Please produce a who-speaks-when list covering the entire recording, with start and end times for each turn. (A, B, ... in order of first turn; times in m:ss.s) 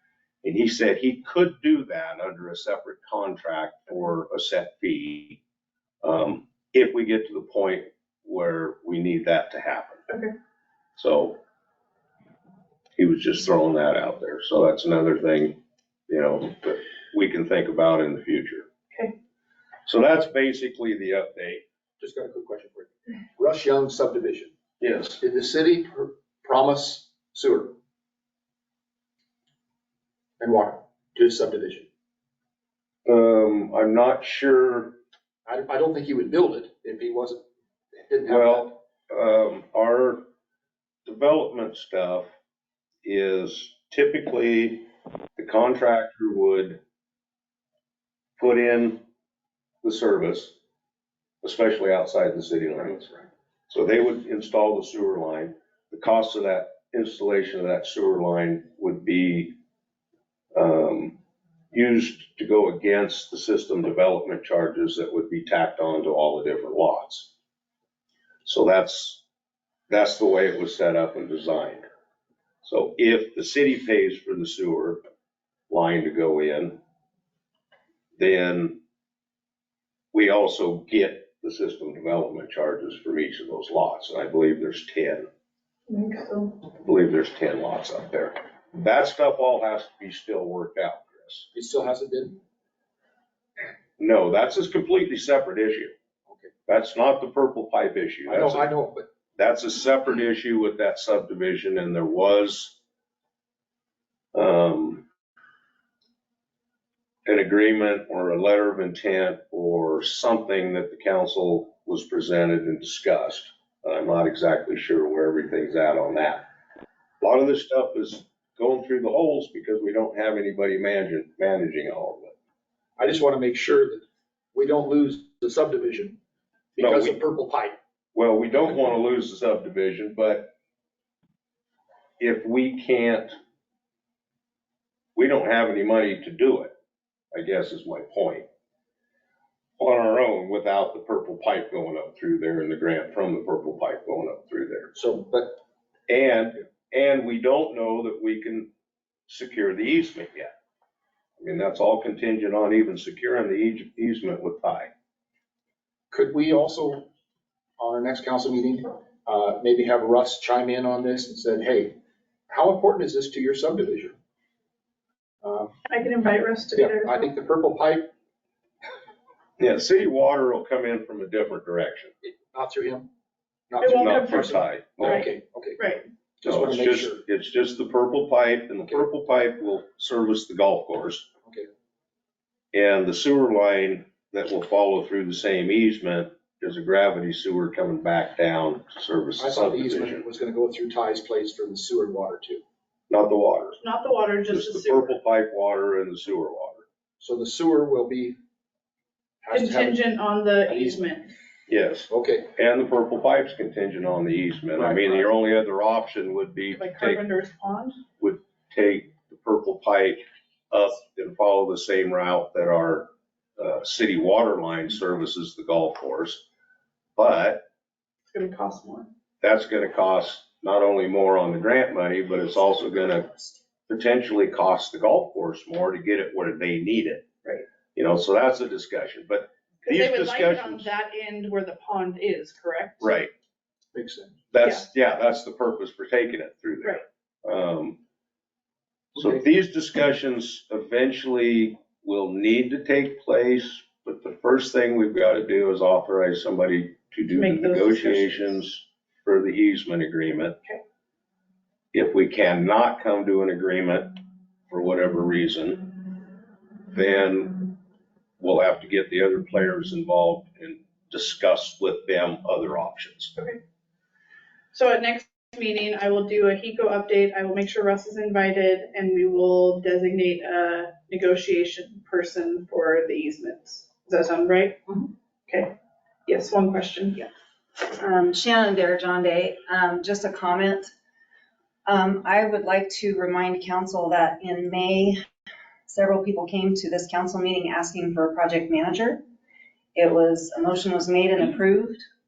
0:00.4-0:05.4 A
0:06.0-0:10.0 A
0:11.0-0:11.4 A
0:13.0-0:15.6 A
0:16.1-0:18.7 A
0:19.8-0:21.6 A
0:22.0-0:24.5 B
0:24.8-0:25.2 A
0:25.2-0:27.8 B
0:30.4-0:31.9 B
0:33.0-0:35.0 A
0:35.4-0:37.4 B
0:38.0-0:38.7 B
0:38.2-0:40.2 A
0:41.0-0:42.3 A
0:43.0-0:46.8 A
0:48.4-0:49.0 A
0:49.8-0:50.5 A
0:51.4-0:59.6 A
1:00.5-1:01.2 A
1:01.7-1:07.3 A
1:08.4-1:09.2 A
1:09.9-1:11.8 A
1:12.6-1:15.0 A
1:15.7-1:16.8 A
1:18.2-1:18.8 A
1:20.1-1:25.3 A
1:25.9-1:26.6 C
1:26.7-1:31.5 A
1:31.5-1:32.4 B
1:34.0-1:35.9 A
1:36.7-1:38.7 A
1:38.3-1:39.1 B
1:39.4-1:42.8 A
1:44.3-1:45.0 A
1:47.2-1:56.4 A
1:57.2-2:02.3 A
2:03.0-2:04.0 B
2:04.5-2:06.2 B
2:06.8-2:07.8 B
2:06.8-2:07.2 A
2:08.1-2:10.5 A
2:12.2-2:13.3 A
2:15.2-2:16.7 A
2:17.3-2:18.4 A
2:19.8-2:24.9 A
2:24.9-2:25.6 B
2:26.1-2:28.7 A
2:29.3-2:30.5 A
2:31.4-2:34.9 A
2:36.1-2:37.1 B
2:37.8-2:42.0 B
2:42.5-2:44.1 B
2:45.4-2:45.7 B
2:45.9-2:47.2 C
2:46.7-2:48.1 B
2:49.6-2:52.1 A
2:52.5-2:53.1 B
2:53.7-2:55.8 B
2:53.8-2:54.5 C
2:53.9-2:55.3 A
2:55.0-2:56.0 C
2:56.4-2:57.2 B
2:56.4-3:01.3 A
3:02.7-3:10.2 A
3:09.4-3:12.6 B
3:13.1-3:13.8 A
3:13.8-3:15.2 C
3:14.5-3:16.8 A
3:17.2-3:18.4 B
3:19.4-3:20.0 B
3:19.5-3:21.3 C
3:20.7-3:21.0 B
3:21.7-3:27.2 A
3:22.1-3:22.5 B
3:24.7-3:25.3 B
3:26.7-3:28.0 C
3:28.2-3:30.2 A
3:30.7-3:36.4 A
3:37.2-3:37.6 A
3:38.3-3:39.1 C
3:39.4-3:47.2 A
3:47.9-3:50.9 A
3:49.8-3:53.2 C
3:53.0-3:53.3 A
3:53.9-3:54.4 B
3:54.5-3:58.0 A
3:59.2-3:59.4 B
3:59.2-4:10.6 A
4:07.3-4:08.6 C
4:11.9-4:16.1 A
4:16.9-4:17.7 A
4:18.4-4:23.3 A
4:24.7-4:35.7 C
4:36.2-4:37.2 C
4:37.8-4:40.9 D
4:41.8-4:45.2 D
4:45.9-4:49.2 D
4:50.0-4:52.0 D